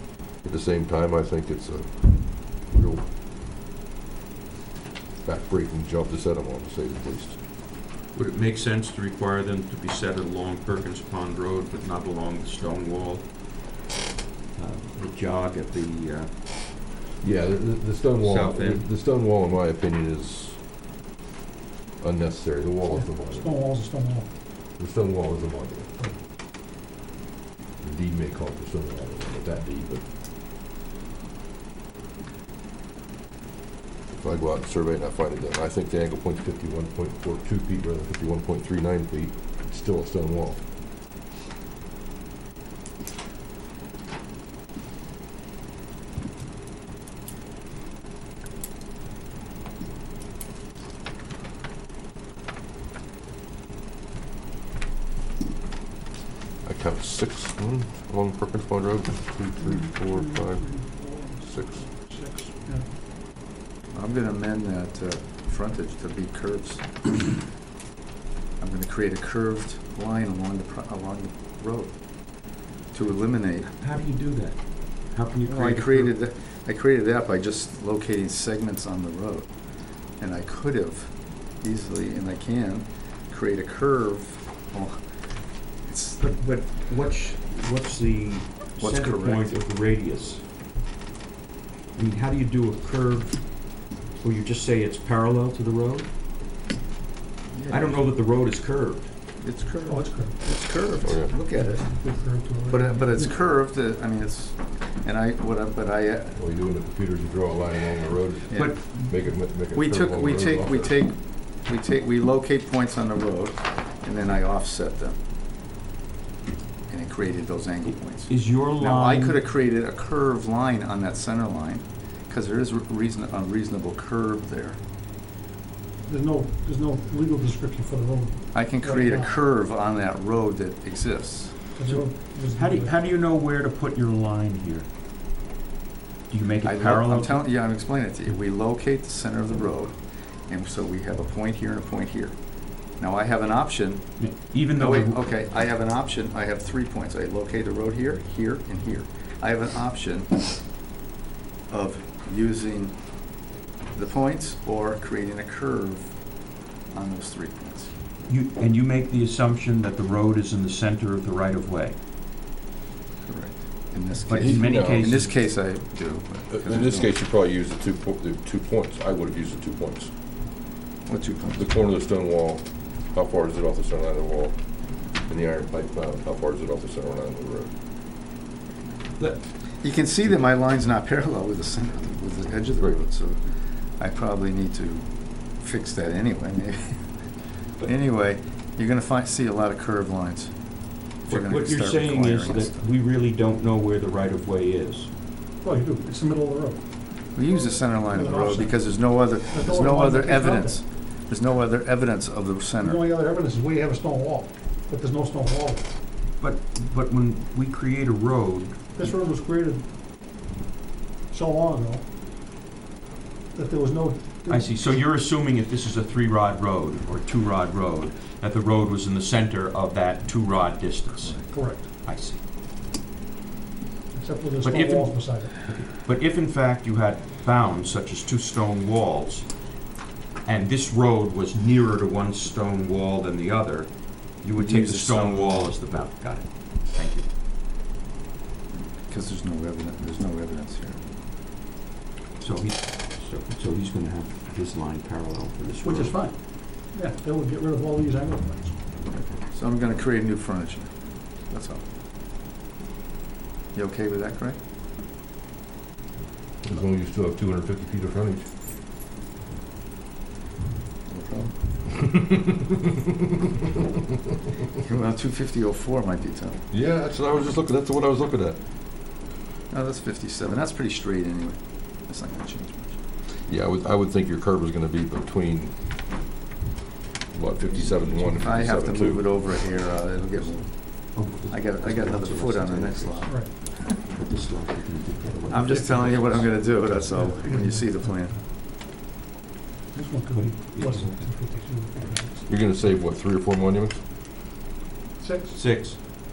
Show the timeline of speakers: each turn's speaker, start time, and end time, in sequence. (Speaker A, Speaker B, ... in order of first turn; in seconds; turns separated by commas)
Speaker A: 0.4-3.0, Speaker A: 5.2-7.4, Speaker B: 8.1-13.9, Speaker B: 14.6-16.9, Speaker A: 17.2-20.6, Speaker B: 18.2-18.9, Speaker A: 22.0-23.5, Speaker C: 23.1-24.3, Speaker A: 24.8-25.9, Speaker A: 27.8-30.0, Speaker A: 34.1-40.6, Speaker A: 56.6-60.8, Speaker C: 59.6-62.9, Speaker A: 61.4-61.9, Speaker D: 63.9-67.1, Speaker D: 68.6-72.0, Speaker D: 72.9-73.7, Speaker B: 73.7-76.1, Speaker D: 75.4-79.5, Speaker D: 80.2-85.0, Speaker D: 85.8-86.3, Speaker B: 86.2-90.4, Speaker D: 88.8-89.5, Speaker B: 91.9-96.1, Speaker D: 97.5-98.0, Speaker B: 97.7-99.1, Speaker D: 99.4-106.4, Speaker C: 99.8-100.4, Speaker A: 101.0-101.3, Speaker C: 101.5-103.3, Speaker A: 106.3-110.9, Speaker D: 108.5-108.9, Speaker B: 108.5-109.0, Speaker D: 109.7-115.2, Speaker D: 116.9-124.8, Speaker B: 118.3-119.4, Speaker C: 126.0-129.3, Speaker D: 128.5-131.6, Speaker C: 131.7-133.0, Speaker B: 131.8-134.9, Speaker B: 136.3-137.5, Speaker D: 136.6-142.4, Speaker D: 143.0-144.2, Speaker B: 144.2-145.2, Speaker D: 144.7-150.4, Speaker D: 151.7-152.9, Speaker D: 153.9-156.1, Speaker D: 156.9-157.9, Speaker B: 158.3-162.0, Speaker D: 163.2-167.1, Speaker B: 164.3-165.3, Speaker A: 164.3-165.2, Speaker A: 166.5-170.1, Speaker D: 171.1-171.7, Speaker A: 171.6-177.7, Speaker D: 179.8-187.1, Speaker D: 187.8-190.6, Speaker D: 191.2-192.8, Speaker B: 191.3-195.1, Speaker C: 195.6-196.8, Speaker D: 197.3-203.0, Speaker C: 198.1-200.8, Speaker C: 202.8-205.9, Speaker B: 206.4-208.9, Speaker C: 208.9-209.8, Speaker C: 211.3-212.0, Speaker C: 213.5-214.8, Speaker B: 214.5-222.4, Speaker C: 221.5-221.9, Speaker C: 224.1-225.5, Speaker B: 224.6-229.6, Speaker B: 230.4-237.2, Speaker D: 234.6-235.9, Speaker D: 238.7-241.0, Speaker B: 242.4-246.2, Speaker C: 245.8-248.8, Speaker D: 249.1-251.8, Speaker D: 253.7-254.6, Speaker A: 256.6-258.5, Speaker D: 261.1-261.6, Speaker D: 264.8-266.6, Speaker A: 266.7-268.6, Speaker D: 269.7-273.0, Speaker A: 273.5-275.7, Speaker A: 277.3-279.3, Speaker D: 278.3-284.0, Speaker B: 281.1-286.9, Speaker C: 283.2-283.5, Speaker D: 285.5-288.4, Speaker C: 287.1-288.4, Speaker C: 289.9-292.5, Speaker B: 290.3-291.3, Speaker A: 292.5-294.0, Speaker C: 295.2-295.6, Speaker B: 295.5-296.0